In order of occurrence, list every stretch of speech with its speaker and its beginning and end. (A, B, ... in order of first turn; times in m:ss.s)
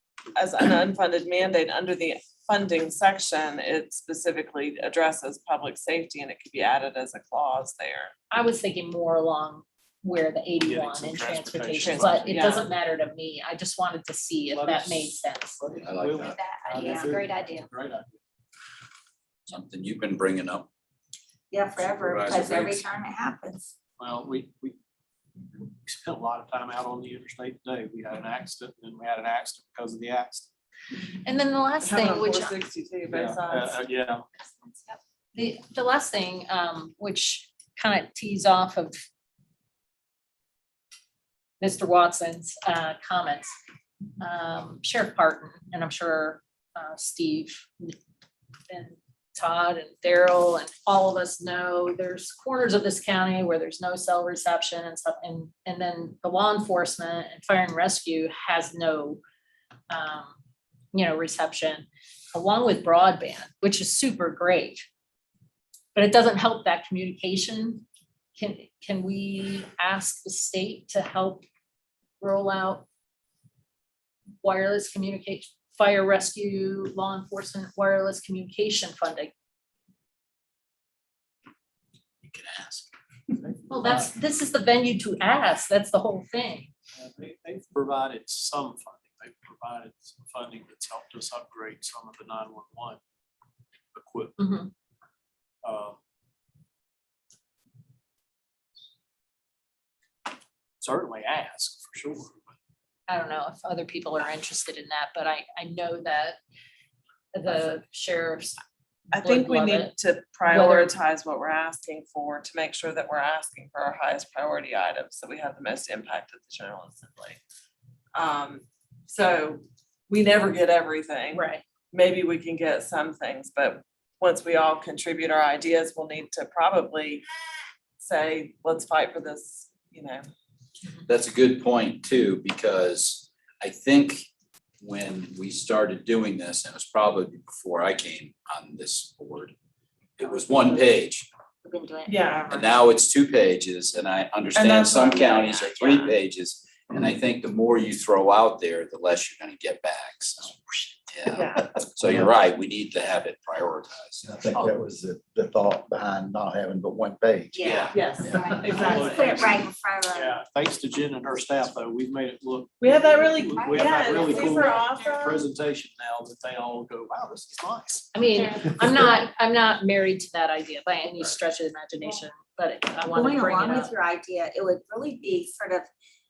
0:00.3-0:08.1 A
0:08.3-0:15.6 B
0:10.6-0:12.5 C
0:11.8-0:12.7 A
0:14.5-0:18.2 C
0:15.8-0:16.4 D
0:16.2-0:17.7 E
0:19.5-0:20.7 D
0:21.5-0:23.7 E
0:21.8-0:22.8 D
0:24.0-0:24.8 C
0:25.6-0:30.5 C
0:31.2-0:32.6 B
0:31.8-0:33.9 A
0:33.1-0:34.2 C
0:35.3-0:39.0 B
0:41.6-0:43.6 B
0:44.2-0:48.0 B
0:48.7-0:59.2 B
0:59.9-1:00.3 B
1:00.9-1:04.8 B
1:05.9-1:11.4 B
1:12.2-1:12.8 B
1:14.4-1:19.3 B
1:22.2-1:22.9 D
1:23.4-1:24.1 C
1:23.7-1:26.7 B
1:26.9-1:33.0 C
1:33.9-1:34.4 C
1:34.4-1:34.7 B
1:35.6-1:36.0 C
1:40.8-1:42.5 C
1:43.1-1:46.4 B
1:47.3-1:48.6 B
1:49.1-1:57.4 A
1:49.1-1:49.9 B
1:50.5-1:50.9 B
1:58.1-2:07.2 A
2:01.3-2:01.6 B
2:08.0-2:10.2 A
2:11.0-2:14.2 D
2:14.8-2:19.5 D
2:20.2-2:21.3 D
2:21.6-2:22.7 E
2:22.1-2:22.5 A
2:22.5-2:34.6 D
2:24.5-2:26.1 A
2:31.3-2:31.7 A
2:34.3-2:38.2 F
2:37.5-2:40.4 E
2:37.9-2:39.5 A
2:38.7-2:48.1 C
2:42.8-2:45.4 A
2:43.1-2:45.1 E
2:48.1-2:53.9 B
2:53.1-2:55.9 E